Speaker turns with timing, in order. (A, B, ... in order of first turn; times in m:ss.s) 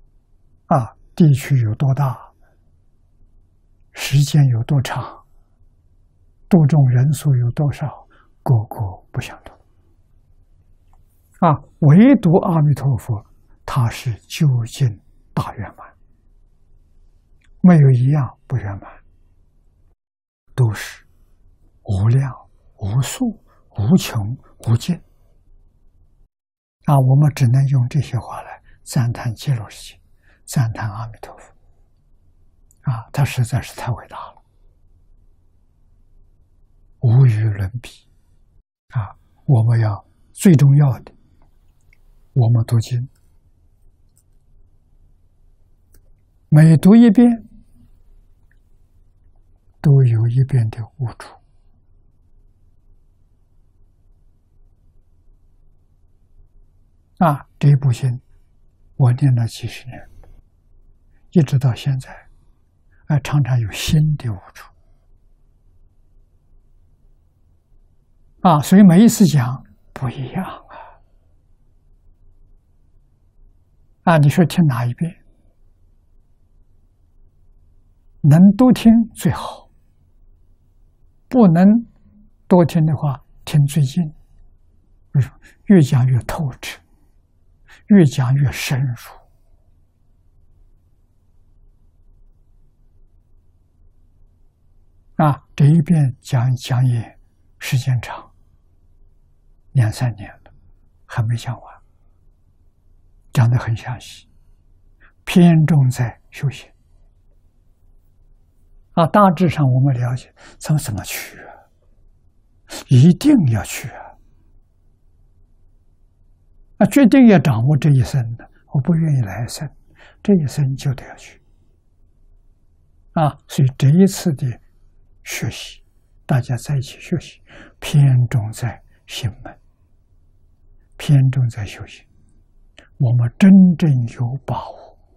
0:00.7-0:02.3 A
0:03.9-0:05.2 A
0:06.5-0:09.6 A
0:11.4-0:15.9 A
0:17.6-0:19.0 A
0:20.5-0:21.0 A
0:21.8-0:25.0 A
0:26.9-0:31.5 A
0:32.8-0:34.4 A
0:37.0-0:38.1 A
0:38.9-0:41.1 A
0:42.3-0:43.1 A
0:46.5-0:47.5 A
0:49.8-0:51.4 A
0:57.2-0:58.2 A
0:59.0-1:00.1 A
1:01.3-1:02.3 A
1:03.1-1:04.7 A
1:08.4-1:10.8 A
1:14.0-1:15.2 A
1:18.2-1:19.7 A
1:21.3-1:21.9 A
1:22.5-1:24.1 A
1:25.1-1:26.8 A
1:27.9-1:29.2 A
1:35.2-1:38.3 A
1:39.7-1:40.5 A
1:41.1-1:41.8 A
1:43.3-1:44.3 A
1:45.2-1:46.7 A
1:48.9-1:51.5 A
1:52.7-1:54.1 A
1:56.8-2:01.4 A
2:03.1-2:04.6 A
2:05.2-2:09.6 A
2:11.0-2:12.1 A
2:13.0-2:15.0 A